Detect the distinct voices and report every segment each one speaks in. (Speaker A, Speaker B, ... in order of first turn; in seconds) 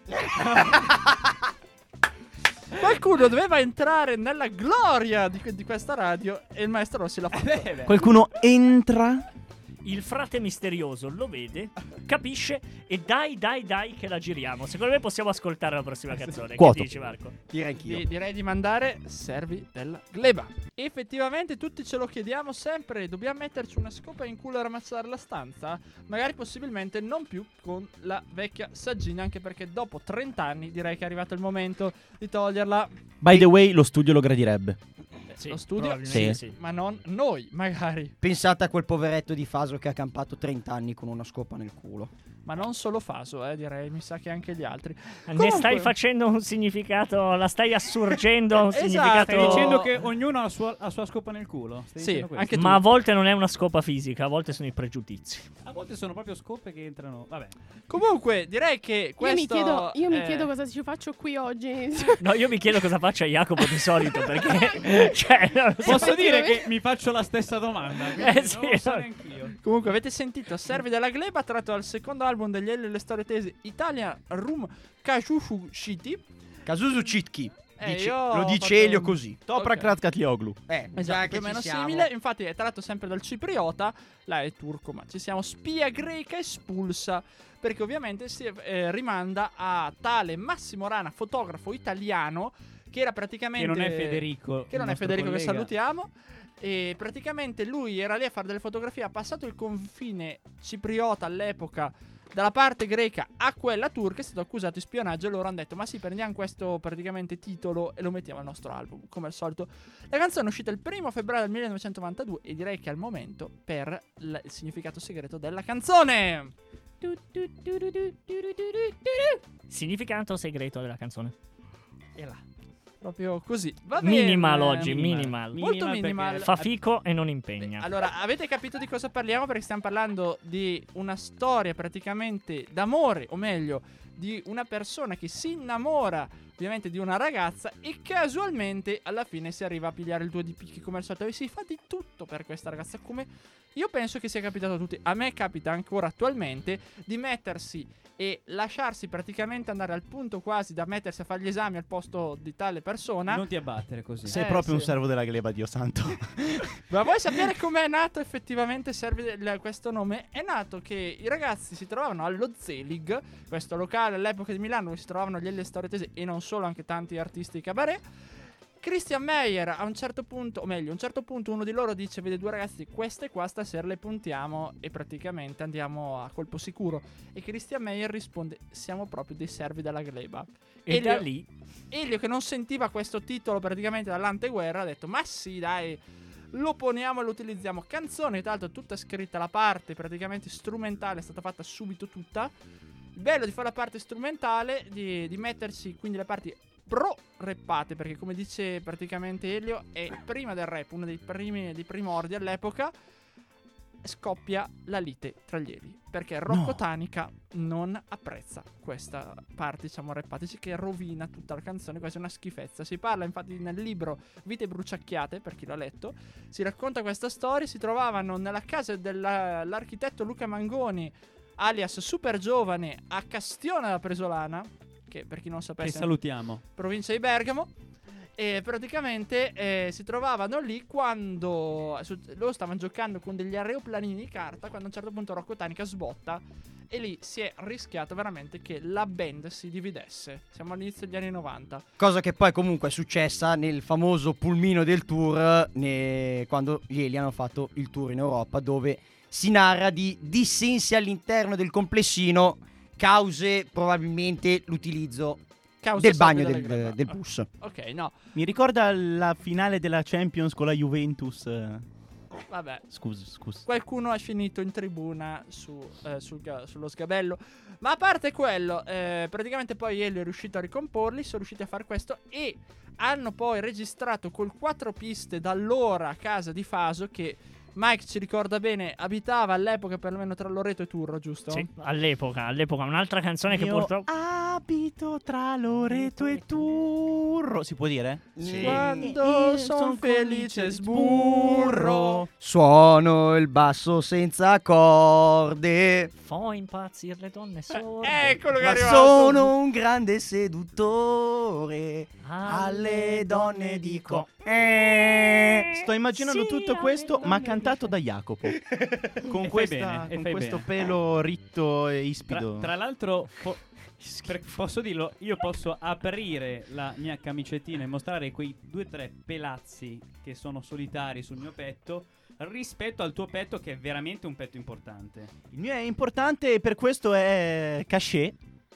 Speaker A: 0.3-0.8, 7.3-8.1, 49.3-52.5, 55.6-57.6, 65.8-69.6, 93.6-95.7, 125.1-126.7, 153.3-154.4, 225.8-226.6, 309.3-310.7, 312.3-325.3
Speaker B: 2.8-7.9, 17.8-33.5, 35.5-38.1, 42.4-45.9, 48.7-49.9, 52.0-52.9, 57.9-60.5, 69.6-76.2, 77.8-79.9, 81.0-119.4, 123.0-126.5, 127.6-153.4, 154.3-154.9, 156.9-168.0, 168.8-181.3, 181.9-192.5, 193.1-202.9, 204.0-226.2, 226.8-227.7, 228.4-241.8, 255.8-258.1, 262.5-262.9, 263.6-281.7, 288.6-292.2, 298.0-299.5
Speaker C: 7.9-9.2, 16.6-16.9, 33.2-34.8, 36.1-36.4, 79.5-80.6, 154.2-156.8, 206.5-206.8, 258.4-261.9, 262.9-263.6, 283.5-292.3, 305.8-308.6, 309.2-312.7, 325.5-328.4
Speaker D: 9.8-17.3, 35.3-36.6, 45.3-49.8, 52.5-55.5, 62.2-66.1, 68.2-69.0, 119.7-121.3, 123.9-125.6, 126.4-127.9, 180.9-181.5, 281.5-284.1, 296.2-298.4, 302.2-304.3, 306.1-307.9
Speaker E: 17.5-18.1, 38.2-42.1, 76.7-79.4, 80.7-82.1, 242.0-255.4, 256.0-257.5, 288.4-289.1, 292.4-296.1, 298.6-305.8
Speaker F: 59.2-62.4, 65.8-66.7